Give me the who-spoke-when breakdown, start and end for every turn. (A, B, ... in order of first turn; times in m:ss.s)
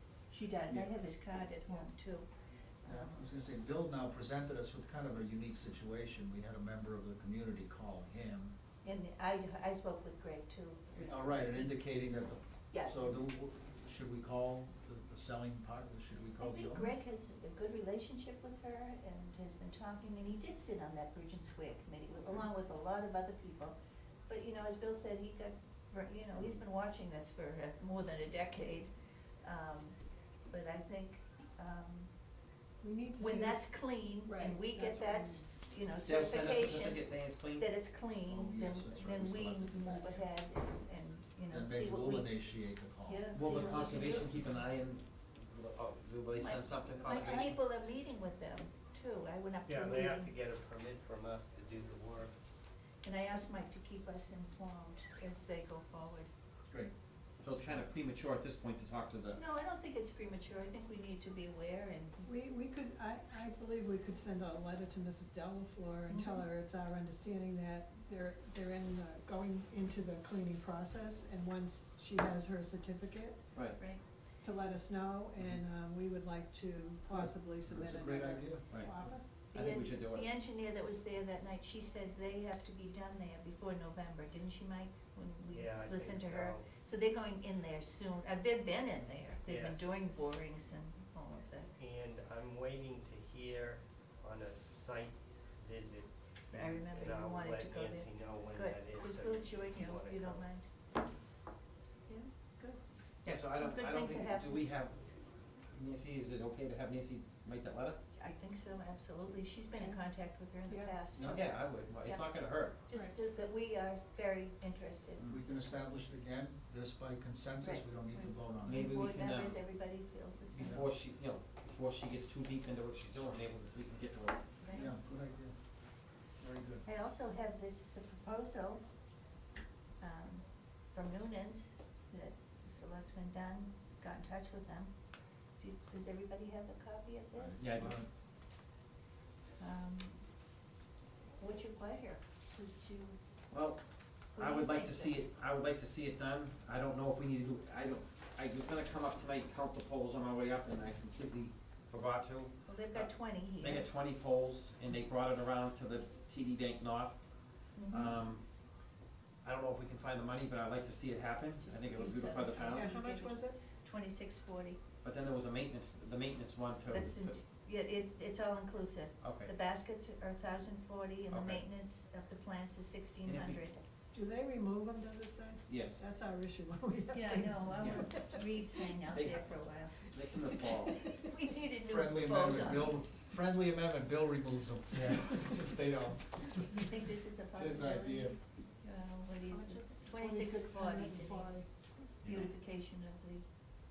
0:00.3-0:02.3 A
0:00.7-0:00.9 B
0:02.8-0:03.2 A
0:02.8-0:08.5 B
0:08.8-0:11.7 A
0:10.9-0:16.9 B
0:12.7-0:13.2 A
0:16.4-0:23.8 A
0:24.3-0:28.9 A
0:29.4-0:30.0 A
0:30.5-0:32.1 A
0:32.8-0:35.4 C
0:33.2-0:42.4 A
0:36.0-0:37.7 D
0:38.2-0:40.3 B
0:41.5-0:44.3 B
0:43.0-0:44.6 A
0:43.3-0:47.6 D
0:46.3-0:50.3 A
0:47.1-0:47.6 C
0:49.6-0:52.3 E
0:53.0-0:56.3 A
0:57.4-0:59.4 D
0:59.3-1:02.3 A
1:02.2-1:13.4 C
1:06.1-1:06.5 A
1:14.4-1:19.2 C
1:17.1-1:19.2 B
1:19.5-1:31.7 A
1:19.5-1:20.3 D
1:25.5-1:26.7 E
1:29.4-1:29.9 E
1:31.8-1:40.5 E
1:36.5-1:40.6 A
1:42.1-1:42.8 A
1:43.2-1:44.9 D
1:43.5-1:44.6 A
1:45.7-1:48.0 D
1:48.2-1:51.5 A
1:50.7-1:51.0 C
1:51.1-1:51.4 B
1:51.2-1:52.8 D
1:52.8-1:55.2 A
1:55.2-1:58.9 B
1:57.6-1:57.9 A
1:58.6-1:59.6 D
1:58.7-2:00.8 A
2:00.5-2:04.5 D
2:00.6-2:00.9 B
2:04.6-2:04.9 A
2:04.7-2:05.6 B
2:06.4-2:06.8 B
2:06.8-2:08.8 A
2:10.0-2:14.9 A
2:15.6-2:17.9 A
2:17.4-2:18.1 B
2:17.6-2:18.0 D
2:19.6-2:20.2 A
2:21.4-2:23.2 A
2:23.5-2:23.8 D
2:24.3-2:37.2 D
2:24.4-2:25.2 A
2:32.7-2:33.9 A
2:37.7-2:38.2 A
2:37.9-2:38.4 D
2:39.4-2:42.9 D
2:41.6-2:44.8 A
2:42.4-2:43.6 C
2:45.0-2:47.4 D
2:46.9-2:53.8 A
2:49.2-2:49.5 D
2:51.3-2:51.6 D
2:53.2-2:53.6 D
2:54.1-2:58.9 C
2:55.7-2:56.0 D
2:57.1-3:00.0 A
2:57.8-2:58.0 D
2:59.1-3:01.1 D
3:00.5-3:01.2 C
3:01.1-3:03.0 A
3:01.8-3:08.4 B
3:06.7-3:11.6 A
3:09.5-3:12.1 C
3:12.2-3:13.5 A
3:12.2-3:12.5 B